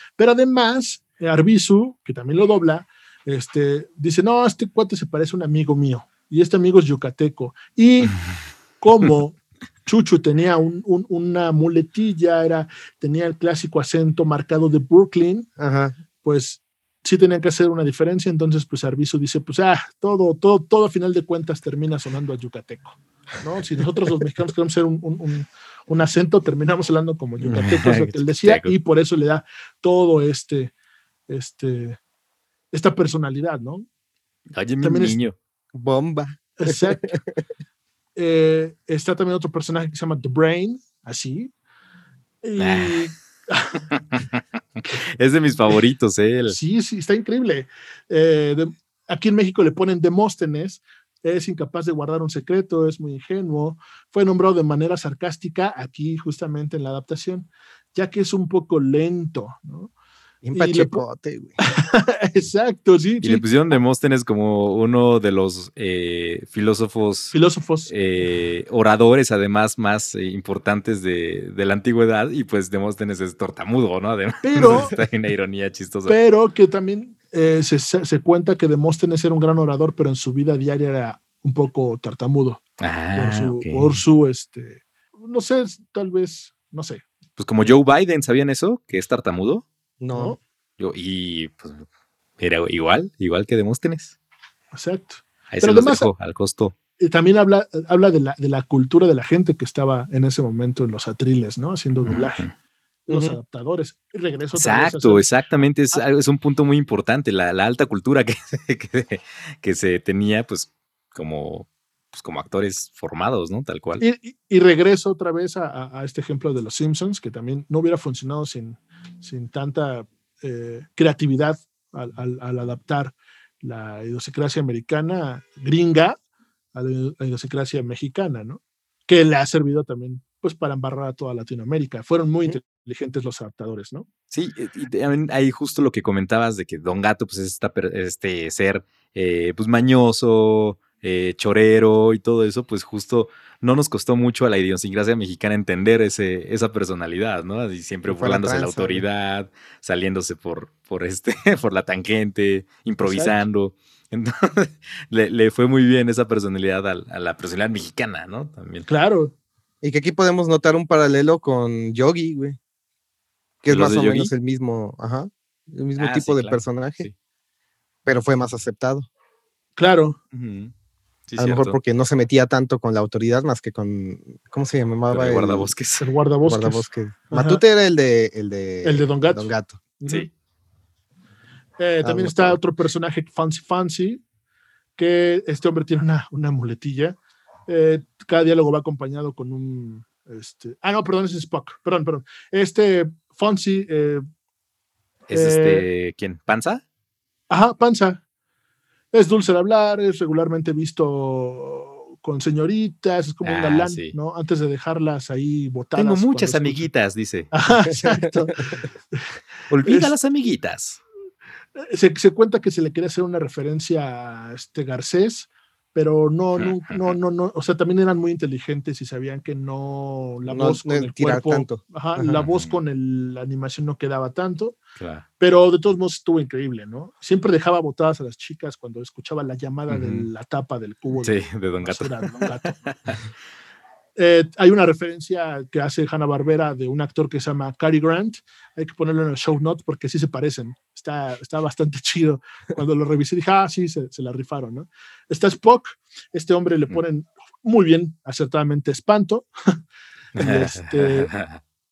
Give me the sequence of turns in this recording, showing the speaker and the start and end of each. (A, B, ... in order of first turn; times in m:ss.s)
0:00.2-0:08.2 A
0:08.8-0:15.5 A
0:15.6-0:16.0 B
0:16.2-0:30.7 A
0:27.4-0:28.7 C
0:31.3-0:32.0 A
0:32.7-0:33.8 A
0:34.5-0:35.4 C
0:34.8-0:35.2 A
0:35.7-0:37.2 B
0:36.6-0:37.1 A
0:38.2-0:41.5 A
0:42.4-0:43.8 A
0:42.6-0:43.1 C
0:43.9-0:46.6 C
0:46.5-0:59.9 A
1:00.4-1:01.6 B
1:00.5-1:01.0 A
1:01.6-1:03.4 A
1:03.2-1:07.3 C
1:07.3-1:07.9 A
1:07.9-1:16.2 C
1:14.4-1:15.0 A
1:16.1-1:22.6 A
1:22.8-1:24.0 C
1:23.1-1:27.0 A
1:27.4-1:29.6 C
1:30.0-1:30.4 B
1:30.8-1:31.8 C
1:32.4-1:34.1 C
1:34.7-1:36.1 A
1:35.5-1:36.8 C
1:37.0-1:42.5 A
1:42.0-1:42.5 C
1:43.1-1:45.3 A
1:43.1-1:43.4 B
1:44.5-1:54.0 C
1:54.0-2:06.2 A
2:06.7-2:14.0 A
2:14.3-2:38.9 C
2:28.1-2:29.0 B
2:33.0-2:33.4 A
2:38.9-2:39.3 A
2:39.8-2:42.6 B
2:43.6-2:47.1 B
2:43.7-2:44.3 C
2:46.0-2:47.1 C
2:48.0-2:49.1 B
2:49.8-2:50.2 A
2:50.3-2:50.7 C
2:51.3-2:51.8 C
2:51.4-2:55.7 B
2:55.1-2:56.0 C
2:56.0-2:57.6 A
2:56.4-2:59.8 B
2:58.8-3:00.3 A
3:01.8-3:04.2 A
3:02.0-3:02.6 B
3:05.0-3:07.2 A
3:07.7-3:14.2 A
3:15.3-3:16.8 C
3:15.3-3:15.8 A
3:17.5-3:18.2 A
3:19.1-3:26.9 A
3:23.4-3:24.1 C
3:26.0-3:27.5 C
3:27.5-3:29.2 A
3:27.9-3:28.3 B
3:29.7-3:31.0 C
3:29.8-3:30.1 A
3:31.8-3:44.8 A
3:36.6-3:37.2 C
3:40.5-3:41.8 B
3:42.3-3:42.8 C
3:45.0-3:45.2 C
3:45.4-3:52.9 A
3:49.9-3:50.3 C
3:51.2-3:52.1 C
3:52.9-3:53.2 C
3:54.2-4:09.8 A
4:10.3-4:11.3 A
4:10.4-4:11.6 C